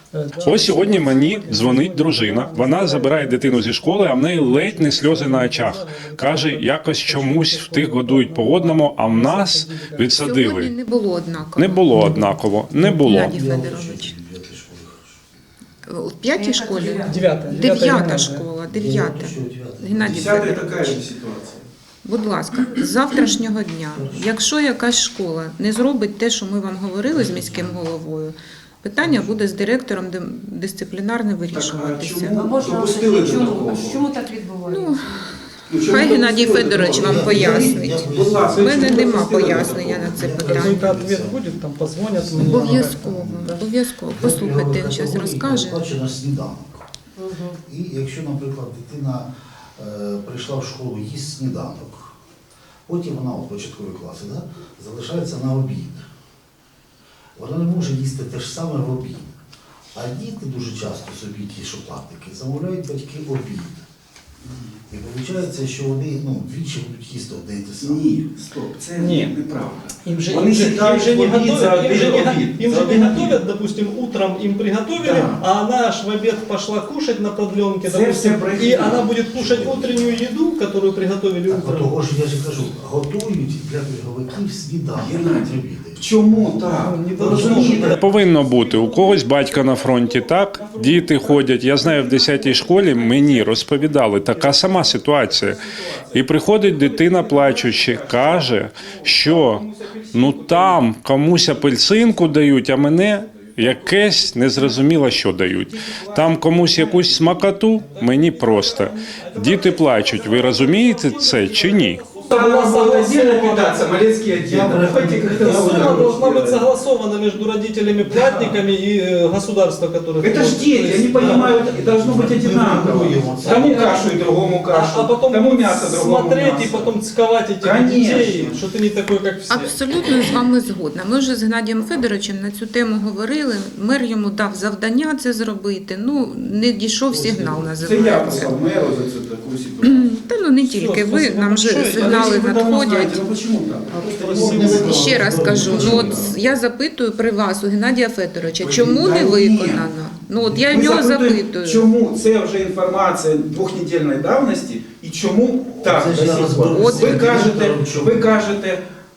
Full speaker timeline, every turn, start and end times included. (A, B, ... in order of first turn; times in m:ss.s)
0:00.1-0:10.2 A
0:00.4-0:01.5 B
0:00.5-0:10.7 C
0:10.2-0:12.3 B
0:11.6-0:13.4 C
0:11.9-0:12.2 A
0:12.8-0:15.2 D
0:12.8-0:14.2 B
0:15.9-0:21.0 B
0:16.3-0:17.1 E
0:17.0-0:18.5 A
0:18.7-0:20.5 D
0:20.1-0:21.6 F
0:22.0-0:32.5 B
0:23.9-0:24.4 D
0:27.1-0:27.9 D
0:29.0-0:29.5 D
0:31.5-0:34.1 F
0:32.4-0:35.3 E
0:34.7-0:35.3 B
0:35.7-0:40.2 F
0:35.9-0:40.9 B
0:36.7-0:46.9 D
0:40.4-0:43.0 A
0:42.4-0:45.8 B
0:47.2-0:47.6 A
0:47.6-0:52.1 D
0:52.9-0:56.1 D
0:57.4-0:59.4 D
0:59.9-1:03.8 D
1:04.4-1:04.8 F
1:04.9-1:08.1 D
1:07.8-1:13.4 F
1:09.0-1:09.4 A
1:10.0-1:21.9 A
1:15.0-1:15.4 F
1:17.8-1:19.1 F
1:19.2-1:20.2 D
1:21.5-1:26.1 D
1:25.0-1:50.9 F
1:26.6-1:28.0 A
1:27.2-1:27.8 D
1:27.8-1:35.6 C
1:36.1-1:52.2 C
1:50.1-1:54.0 A
1:52.2-1:56.7 F
1:54.3-1:56.1 D
1:55.0-2:01.7 A
1:58.0-1:58.6 F
2:00.2-2:07.0 F
2:01.9-2:03.9 D
2:03.5-2:04.2 A
2:04.7-2:09.7 A
2:07.6-2:08.6 F
2:09.5-2:18.6 B
2:17.1-2:17.8 D
2:17.8-2:20.1 F
2:19.8-2:23.2 B
2:20.6-2:21.7 A
2:21.5-2:26.4 F
2:23.9-2:24.8 A
2:24.2-2:26.4 D
2:24.6-2:31.9 B
2:28.6-2:29.9 F
2:30.5-2:38.8 F
2:35.8-2:38.5 D
2:36.7-2:37.4 B